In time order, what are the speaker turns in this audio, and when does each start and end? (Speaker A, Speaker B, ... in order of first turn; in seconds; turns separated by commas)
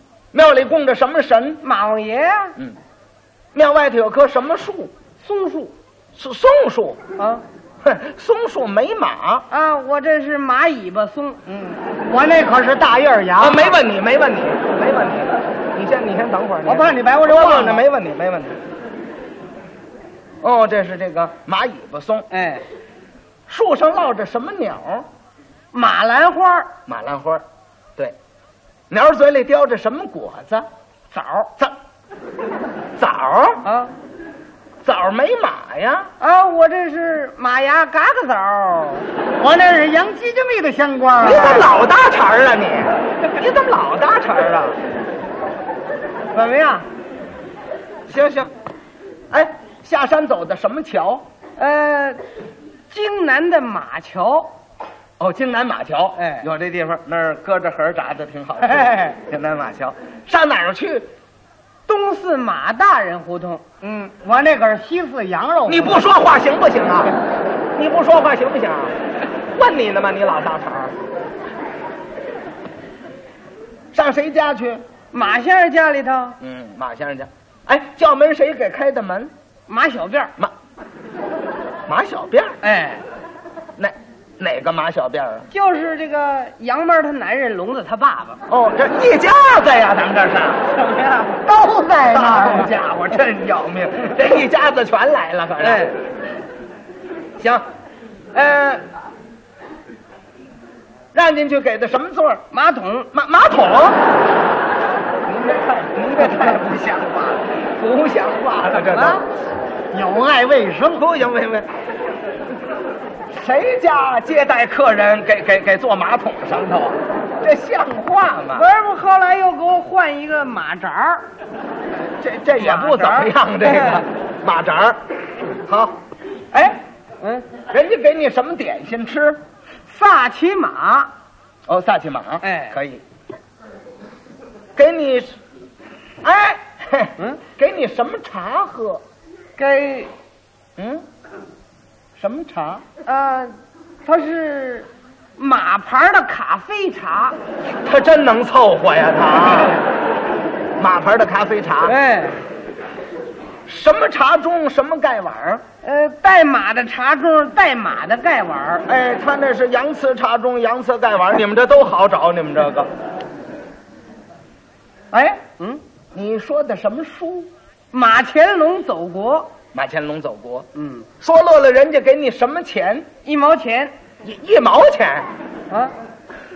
Speaker A: 0.3-1.6, Speaker B: 1.6-2.6, Speaker A: 3.5-4.9, Speaker B: 5.2-5.7, Speaker A: 6.2-7.0, Speaker B: 7.2-7.4, Speaker A: 7.8-9.5, Speaker B: 9.5-11.4, Speaker C: 11.5-13.8, Speaker A: 13.4-18.6, Speaker C: 16.7-17.8, Speaker A: 20.4-22.3, Speaker B: 22.3-22.6, Speaker A: 23.5-25.1, Speaker B: 25.7-26.7, Speaker A: 26.9-27.4, Speaker A: 28.9-30.7, Speaker B: 31.1-31.5, Speaker A: 33.0-33.6, Speaker B: 33.6-33.9, Speaker A: 34.8-36.1, Speaker B: 36.2-39.1, Speaker C: 39.4-41.7, Speaker A: 41.2-44.8, Speaker B: 46.3-46.9, Speaker A: 48.1-48.5, Speaker A: 49.3-51.2, Speaker B: 51.6-52.2, Speaker B: 52.9-54.5, Speaker A: 55.2-61.1, Speaker B: 56.2-56.5, Speaker C: 58.7-59.1, Speaker B: 61.9-63.6, Speaker C: 63.8-66.0, Speaker A: 65.7-67.2, Speaker A: 67.8-69.0, Speaker A: 69.5-70.9, Speaker A: 73.9-74.8, Speaker B: 75.1-76.4, Speaker A: 76.4-79.3, Speaker B: 79.7-80.3, Speaker A: 81.9-82.6, Speaker B: 82.6-83.0, Speaker A: 83.8-85.5, Speaker B: 85.5-88.4, Speaker A: 88.5-90.6, Speaker B: 90.7-91.4, Speaker C: 91.5-92.7, Speaker A: 92.1-95.9, Speaker B: 95.6-96.0, Speaker A: 97.4-97.7, Speaker A: 98.3-98.8, Speaker A: 101.1-102.4, Speaker B: 102.5-103.1, Speaker A: 103.1-104.0, Speaker A: 105.3-109.3, Speaker B: 108.8-109.2, Speaker C: 109.9-111.1, Speaker A: 111.0-111.7, Speaker A: 113.3-118.6, Speaker B: 118.5-121.3, Speaker A: 122.2-125.0, Speaker B: 122.6-124.0, Speaker A: 125.7-126.0, Speaker A: 126.5-126.8, Speaker A: 127.7-129.4, Speaker B: 129.9-131.1, Speaker A: 131.7-133.0, Speaker B: 132.4-132.8, Speaker A: 134.8-135.4, Speaker A: 136.2-139.0, Speaker B: 139.6-140.1, Speaker A: 140.8-141.0, Speaker A: 142.2-142.8, Speaker B: 143.1-143.5, Speaker B: 144.1-147.4, Speaker A: 147.8-149.8, Speaker A: 150.8-151.9, Speaker B: 151.8-152.4, Speaker A: 153.7-155.6, Speaker B: 155.8-158.8, Speaker A: 158.9-162.9, Speaker A: 165.1-165.4, Speaker A: 166.1-167.5, Speaker B: 167.9-169.5, Speaker A: 169.7-170.7, Speaker B: 170.8-171.1, Speaker A: 171.2-173.1, Speaker B: 173.2-173.9, Speaker A: 174.2-175.3, Speaker B: 175.7-175.9